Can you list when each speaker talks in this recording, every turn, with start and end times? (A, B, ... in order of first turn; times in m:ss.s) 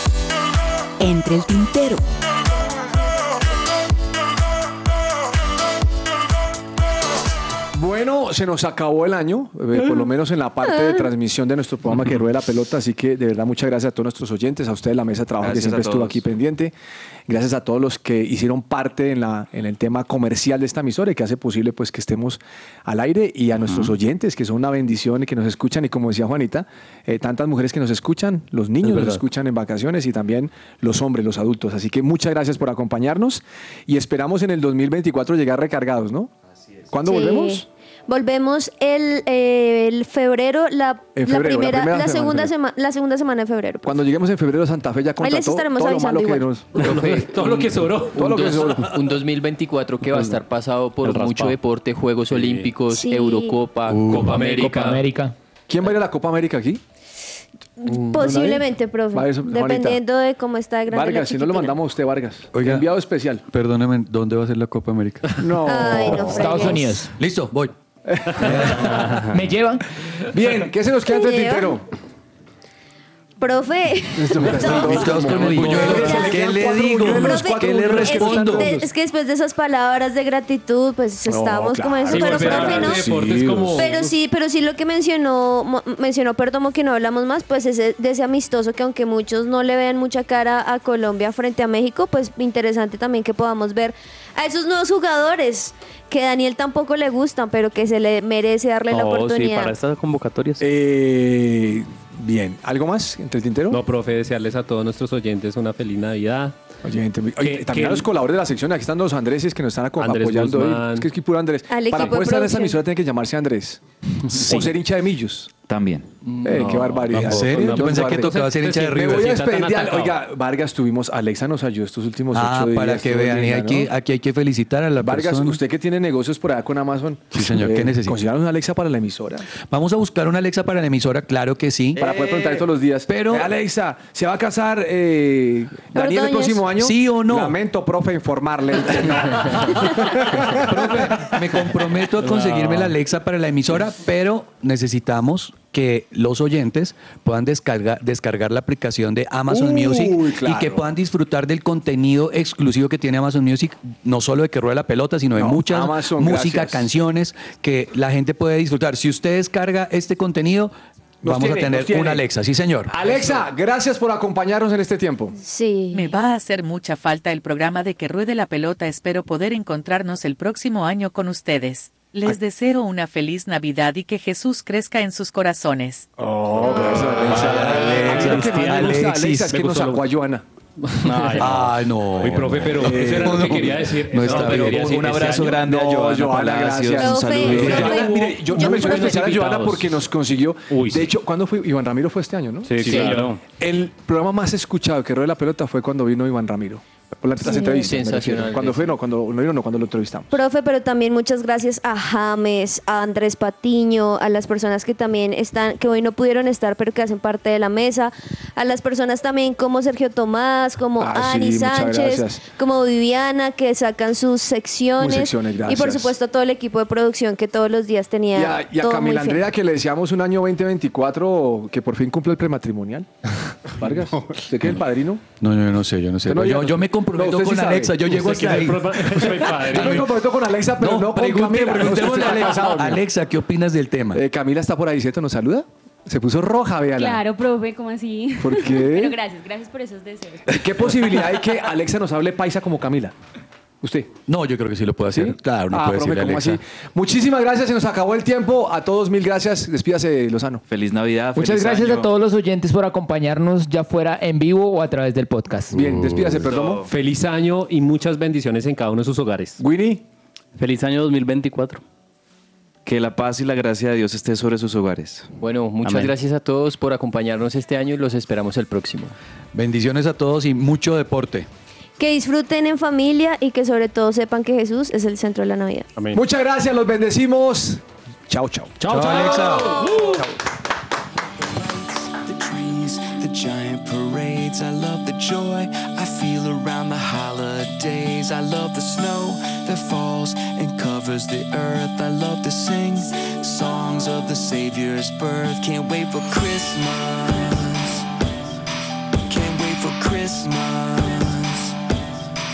0:01.0-0:02.0 A
0:07.7-0:16.7 B
0:15.4-0:16.2 C
0:17.3-0:36.3 B
0:23.6-0:23.9 D
0:28.8-0:29.2 E
0:36.9-0:37.7 B
0:37.0-0:44.0 F
0:41.2-0:42.5 B
0:43.8-0:46.9 B
0:45.2-0:46.5 F
0:46.8-0:48.5 E
0:46.8-0:47.6 G
0:48.1-0:48.9 B
0:48.2-0:54.9 G
0:51.0-0:51.6 E
0:52.3-0:52.7 E
0:52.9-0:53.6 F
0:53.9-0:54.3 H
0:54.1-0:55.0 E
0:54.6-0:55.3 I
0:55.7-0:56.8 B
0:57.8-1:01.7 F
0:58.1-1:00.0 B
1:00.9-1:03.4 B
1:02.5-1:02.9 H
1:03.5-1:05.3 H
1:05.4-1:06.6 B
1:05.6-1:07.0 F
1:06.2-1:07.1 I
1:07.1-1:07.7 H
1:08.1-1:08.6 B
1:08.4-1:09.2 H
1:09.0-1:09.3 D
1:09.3-1:09.8 I
1:10.3-1:11.8 B
1:11.1-1:11.8 F
1:13.4-1:16.4 F
1:14.2-1:18.9 B
1:14.4-1:18.9 H
1:15.3-1:15.7 E
1:17.0-1:23.0 F
1:21.3-1:23.9 B
1:22.1-1:24.1 E
1:23.8-1:39.8 F
1:38.9-1:40.7 D
1:40.6-1:43.8 B
1:43.7-1:46.6 E
1:46.8-1:55.5 B
1:47.4-1:48.1 E
1:50.0-1:51.1 E
1:51.7-1:52.8 F
1:55.7-1:56.1 C
1:56.4-2:03.9 B
1:56.5-2:00.2 E
1:57.1-1:59.4 H
2:02.3-2:05.6 H
2:05.0-2:09.5 B
2:07.3-2:08.2 H
2:09.5-2:12.0 H
2:12.0-2:12.7 C
2:12.0-2:21.4 B
2:13.1-2:13.5 H
2:15.9-2:16.7 F
2:16.7-2:17.6 H
2:20.5-2:42.9 H
2:22.6-2:22.9 E
2:29.5-2:30.8 B
2:35.4-2:36.9 B
2:41.2-2:42.2 B
2:42.9-2:45.4 B
2:45.4-2:46.1 F
2:45.9-2:56.1 J
2:56.2-3:00.4 B
2:56.6-2:57.1 F
2:56.7-2:59.6 H
2:57.3-3:00.0 E
3:00.8-3:05.6 E
3:01.0-3:01.6 D
3:01.4-3:05.1 H
3:02.7-3:03.7 B
3:04.3-3:20.3 B
3:04.3-3:08.0 C
3:06.9-3:09.2 F
3:07.4-3:10.0 E
3:10.7-3:11.1 E
3:12.7-3:13.4 E
3:12.7-3:13.4 D
3:12.8-3:13.1 G
3:17.4-3:17.9 F
3:17.8-3:19.0 G
3:20.3-3:39.4 F
3:31.0-3:32.4 B
3:35.0-3:36.1 B
3:38.3-3:43.1 B
3:43.7-3:45.2 B
3:45.4-3:54.2 H
3:46.3-3:48.6 B
3:48.1-3:50.1 E
3:49.6-3:53.0 B
3:54.1-3:57.3 B
3:56.9-4:00.5 K
3:58.4-3:59.2 B
4:00.5-4:03.1 B
4:03.8-4:04.1 B
4:04.3-4:06.6 H
4:05.1-4:10.6 B
4:10.7-4:12.1 C
4:11.4-4:15.8 I
4:15.7-4:16.8 B
4:15.8-4:16.4 H
4:16.4-4:16.9 C
4:16.9-4:19.6 E
4:19.6-4:20.0 B
4:20.6-4:21.8 D
4:22.8-4:25.3 C
4:25.4-4:29.1 G
4:25.8-4:26.1 D
4:29.5-4:31.5 H
4:32.0-4:35.9 F
4:36.0-4:36.2 E
4:36.1-4:38.9 B
4:38.8-4:40.2 E
4:38.8-4:39.8 H
4:41.4-4:58.1 A
4:59.2-5:01.8 A